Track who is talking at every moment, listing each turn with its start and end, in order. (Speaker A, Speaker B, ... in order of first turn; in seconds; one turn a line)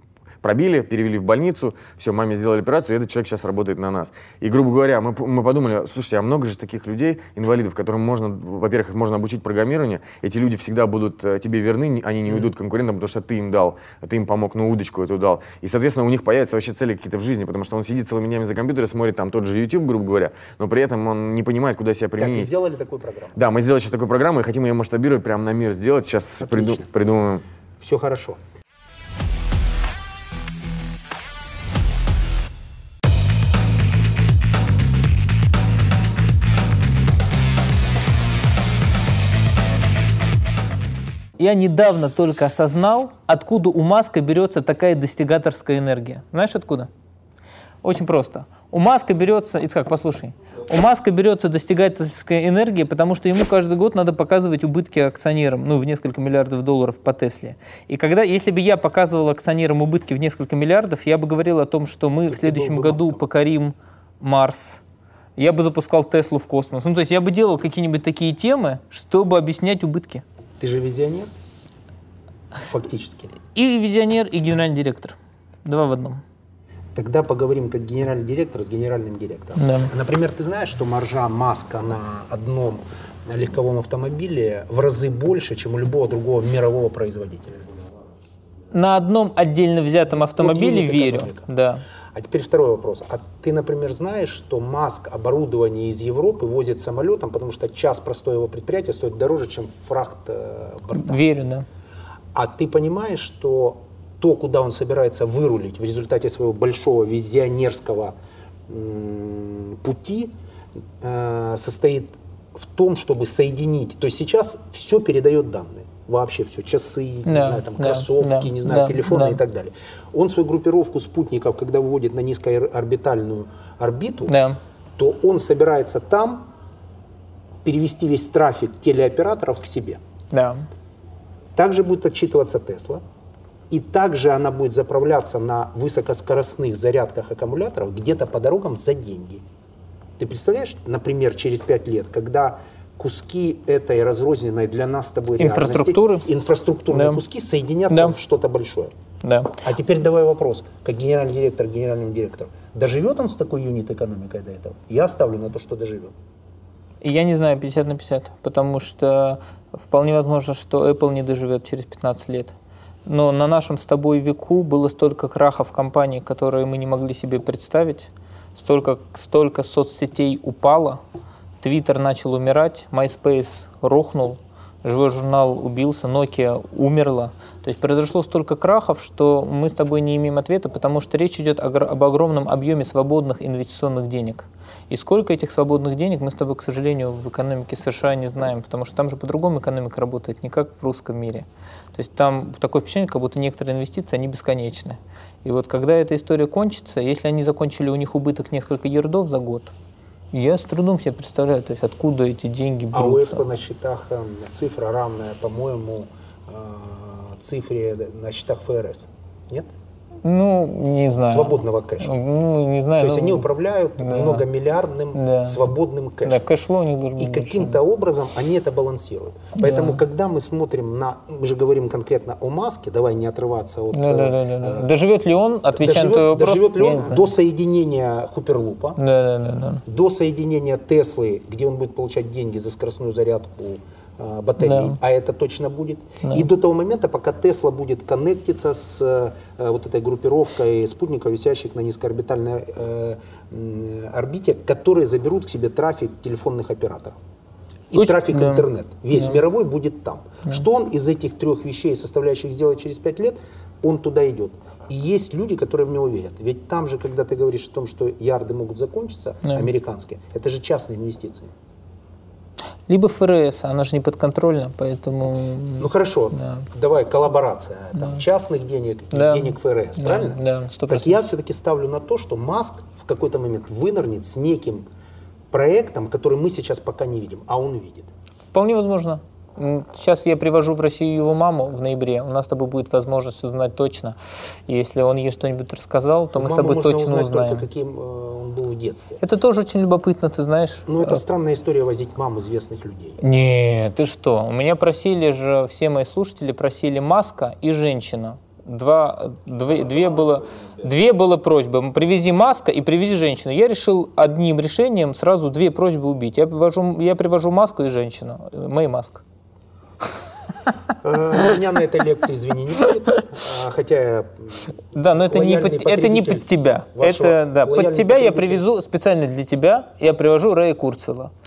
Speaker A: 0.4-22.5
Speaker B: 22.2-23.4
Speaker A: 23.3-27.4
Speaker B: 26.4-26.9
Speaker B: 27.8-28.4
Speaker C: 41.4-46.9
Speaker C: 47.8-64.8
Speaker B: 62.3-63.2
Speaker C: 65.4-70.2
Speaker B: 70.6-71.3
Speaker B: 72.5-73.3
Speaker C: 73.5-76.2
Speaker B: 76.9-87.6
Speaker C: 79.6-79.9
Speaker C: 88.7-91.8
Speaker B: 90.4-91.5
Speaker B: 92.1-101.2
Speaker C: 101.0-101.6
Speaker B: 102.3-108.1
Speaker B: 108.7-110.3
Speaker B: 111.0-124.3
Speaker C: 117.2-119.4
Speaker C: 124.3-124.6
Speaker B: 125.0-126.5
Speaker B: 127.6-130.0
Speaker C: 130.3-130.7
Speaker B: 131.6-133.0
Speaker B: 133.7-139.4
Speaker B: 140.2-148.9
Speaker C: 145.4-146.2
Speaker C: 146.9-147.2
Speaker C: 147.9-148.2
Speaker C: 149.2-149.6
Speaker B: 149.6-156.1
Speaker C: 157.0-162.5
Speaker C: 163.1-171.0
Speaker C: 171.6-199.7
Speaker C: 200.3-203.4
Speaker B: 202.9-209.7
Speaker C: 210.2-213.5
Speaker B: 211.2-212.1
Speaker B: 213.0-216.5
Speaker C: 214.0-214.4
Speaker C: 215.1-215.6
Speaker C: 216.2-217.8
Speaker B: 217.2-224.8
Speaker C: 219.6-220.0
Speaker C: 223.9-227.3
Speaker B: 225.7-229.0
Speaker C: 229.0-229.8
Speaker B: 229.9-247.2
Speaker C: 234.6-235.0
Speaker C: 236.2-236.5
Speaker B: 247.9-261.5
Speaker C: 247.9-248.7
Speaker C: 262.9-266.6
Speaker B: 265.8-274.9
Speaker C: 269.1-271.2
Speaker B: 275.5-278.1
Speaker C: 278.5-287.7
Speaker B: 286.4-289.2
Speaker C: 289.2-291.2
Speaker B: 290.9-293.2
Speaker C: 293.2-309.2
Speaker B: 299.8-300.8
Speaker B: 311.0-318.6
Speaker C: 314.9-321.3